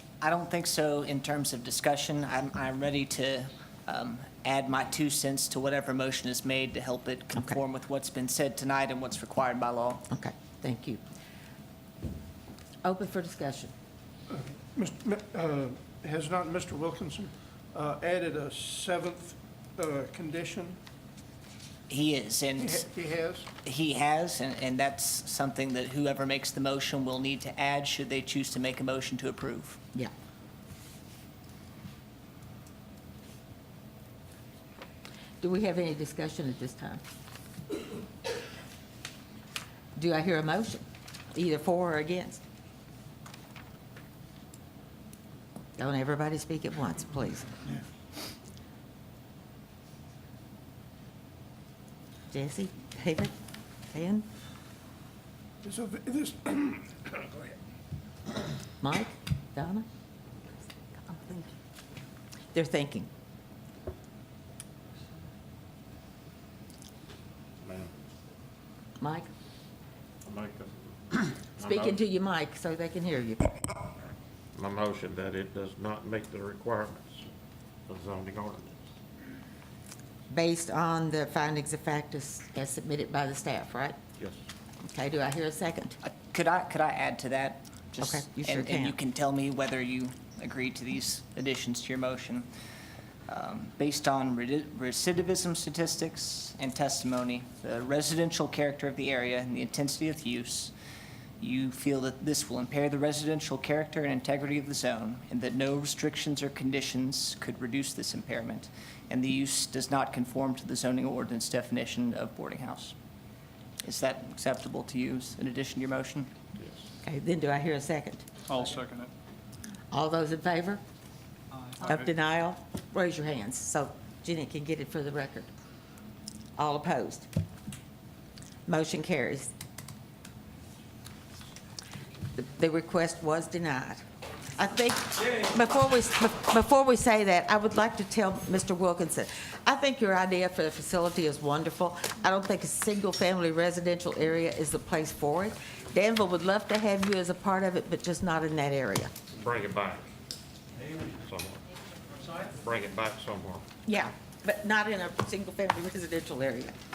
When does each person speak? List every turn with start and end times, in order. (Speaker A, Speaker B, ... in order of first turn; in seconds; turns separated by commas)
Speaker A: 0.2-10.0, Speaker B: 10.1-11.0, Speaker B: 12.8-13.7, Speaker C: 14.3-20.8, Speaker A: 21.9-22.9, Speaker C: 22.6-23.5, Speaker A: 23.6-29.8, Speaker B: 35.4-37.0, Speaker B: 40.0-42.4, Speaker B: 45.8-47.5, Speaker B: 52.3-53.3, Speaker B: 53.9-54.3, Speaker C: 55.6-57.6, Speaker B: 58.8-59.9, Speaker B: 61.0-61.5, Speaker B: 62.5-63.1, Speaker D: 67.6-67.9, Speaker B: 69.0-69.3, Speaker D: 70.2-72.0, Speaker B: 71.6-73.7, Speaker D: 74.5-77.3, Speaker D: 77.9-78.8, Speaker B: 80.3-84.0, Speaker B: 84.8-86.0, Speaker A: 86.0-92.5, Speaker B: 88.0-89.0, Speaker A: 93.3-100.7, Speaker A: 101.4-113.0, Speaker A: 113.8-116.3, Speaker B: 117.0-118.3, Speaker C: 118.5-119.0, Speaker B: 119.9-120.8, Speaker B: 121.8-125.5, Speaker B: 126.6-127.3, Speaker B: 128.7-129.5, Speaker B: 132.3-149.1, Speaker D: 149.3-150.1, Speaker D: 151.1-151.6, Speaker D: 152.6-153.7, Speaker B: 153.9-156.8